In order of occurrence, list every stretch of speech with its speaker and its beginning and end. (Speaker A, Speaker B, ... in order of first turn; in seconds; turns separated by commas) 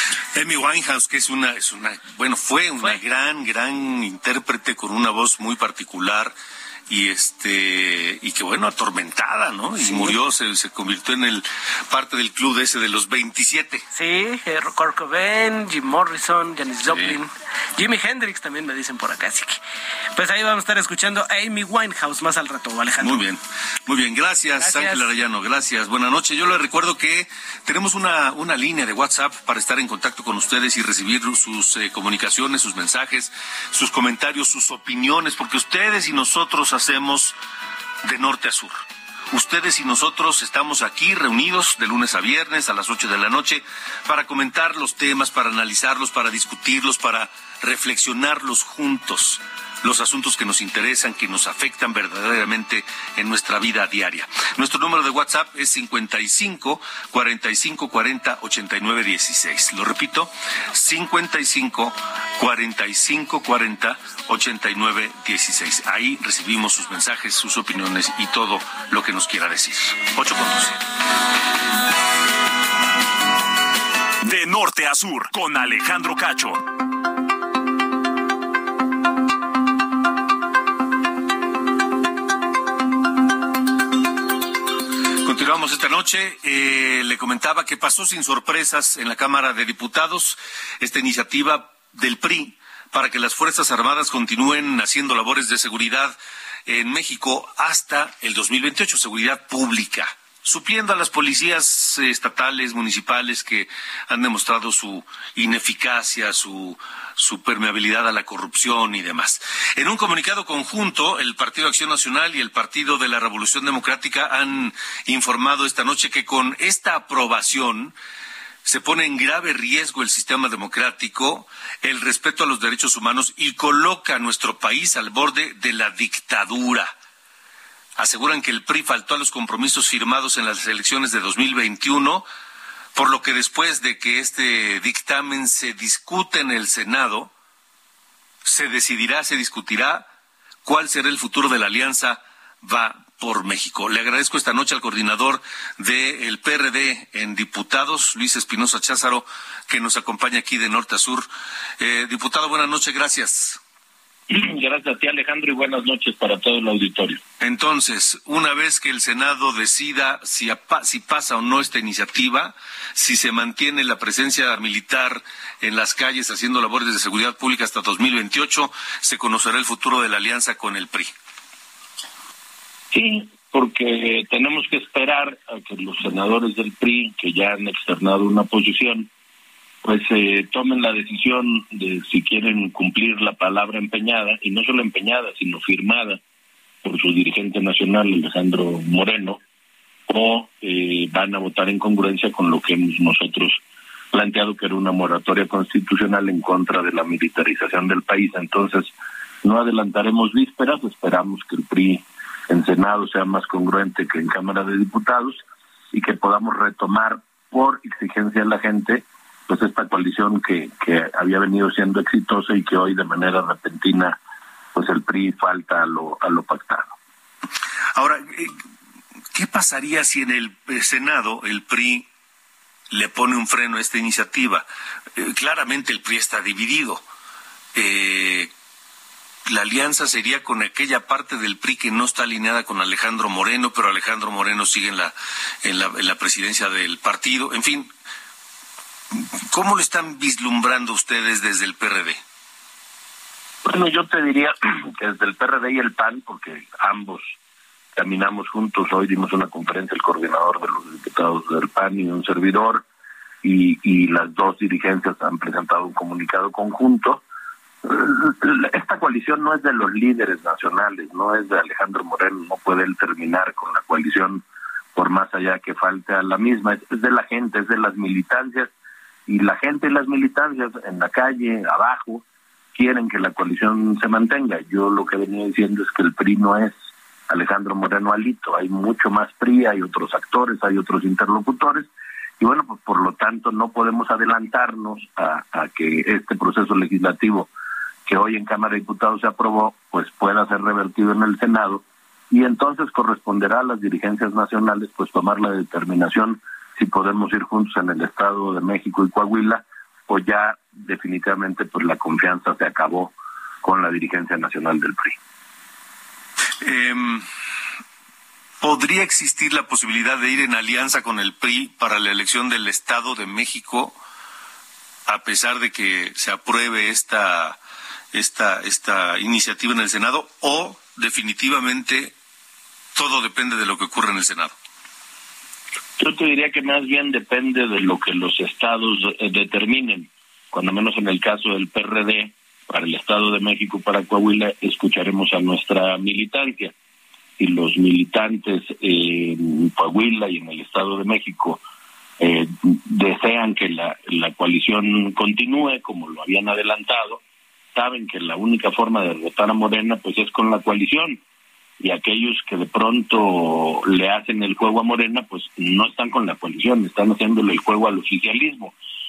Speaker A: 0.3-6.3, Speaker A: 6.9-13.8, Speaker B: 9.8-10.2, Speaker B: 13.9-19.6, Speaker A: 16.9-17.1, Speaker B: 20.1-23.2, Speaker A: 23.0-37.4, Speaker B: 24.6-25.1, Speaker A: 38.0-38.8, Speaker A: 39.3-70.8, Speaker C: 74.2-76.6, Speaker A: 85.2-96.2, Speaker A: 96.7-118.0, Speaker A: 118.6-126.9, Speaker A: 128.0-132.2, Speaker A: 132.9-137.3, Speaker A: 138.4-140.1, Speaker A: 140.6-151.3, Speaker A: 151.8-153.6, Speaker D: 154.3-157.2, Speaker A: 157.4-171.1, Speaker D: 172.9-179.1, Speaker D: 179.8-186.2, Speaker D: 186.8-189.4, Speaker D: 190.1-193.6, Speaker D: 194.1-214.2, Speaker D: 214.8-216.9, Speaker A: 217.9-218.5, Speaker A: 219.3-222.1, Speaker A: 222.9-227.0, Speaker A: 227.8-228.5, Speaker A: 229.5-237.9, Speaker A: 239.1-242.2, Speaker D: 243.6-247.3, Speaker D: 248.0-252.8, Speaker D: 253.4-257.2, Speaker D: 257.8-264.4, Speaker D: 264.9-268.7, Speaker D: 269.3-272.2, Speaker D: 272.8-276.7, Speaker D: 277.3-281.9, Speaker D: 282.4-287.5, Speaker D: 288.1-305.1, Speaker A: 306.6-307.2, Speaker A: 308.6-313.9, Speaker A: 315.1-317.6, Speaker A: 318.1-322.1, Speaker A: 322.9-324.5, Speaker D: 326.0-336.7, Speaker D: 337.4-341.6, Speaker D: 342.2-347.2, Speaker D: 347.7-351.2, Speaker D: 351.8-358.7